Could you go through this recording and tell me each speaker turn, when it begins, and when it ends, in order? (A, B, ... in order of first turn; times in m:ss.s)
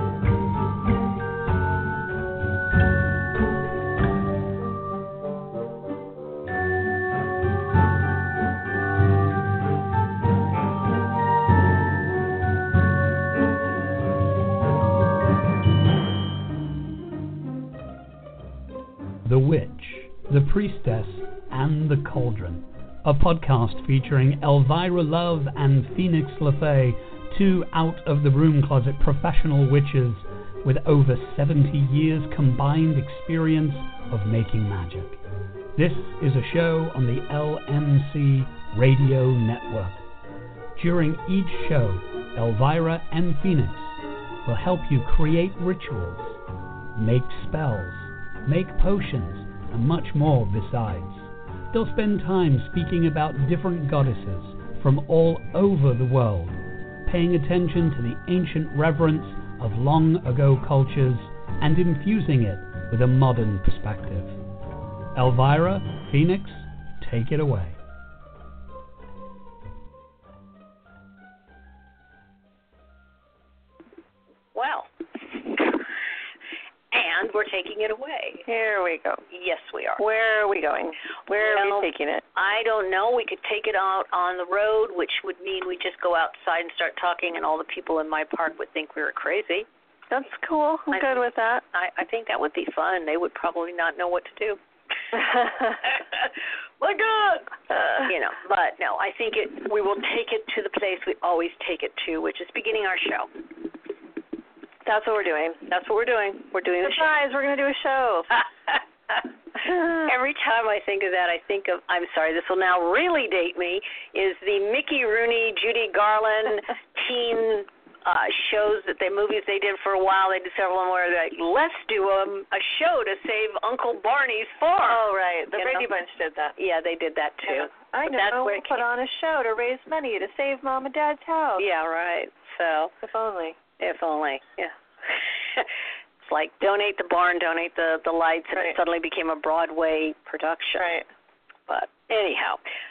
0:19.2-0:35.2 A
0:35.8-0:40.0 A
0:40.8-0:46.4 A
0:47.0-1:04.4 A
1:05.1-1:07.8 A
1:14.5-1:15.8 B
1:16.9-1:18.5 B
1:18.5-1:19.2 C
1:19.3-1:20.0 B
1:20.0-1:22.2 C
1:21.4-1:29.7 B
1:30.1-1:31.6 C
1:30.9-1:31.2 B
1:31.7-1:34.6 B
1:35.1-1:35.8 C
1:35.8-1:43.3 B
1:37.8-1:38.1 C
1:44.8-1:45.6 C
1:45.7-1:47.1 B
1:46.8-1:48.4 C
1:48.7-2:05.0 B
1:49.7-1:50.0 C
2:04.8-2:06.6 C
2:05.6-2:05.9 B
2:06.6-2:08.8 B
2:07.5-2:11.6 C
2:11.6-2:12.9 B
2:13.0-2:13.6 C
2:13.8-2:15.7 B
2:16.2-2:20.9 B
2:20.8-2:21.0 C
2:21.7-2:22.6 B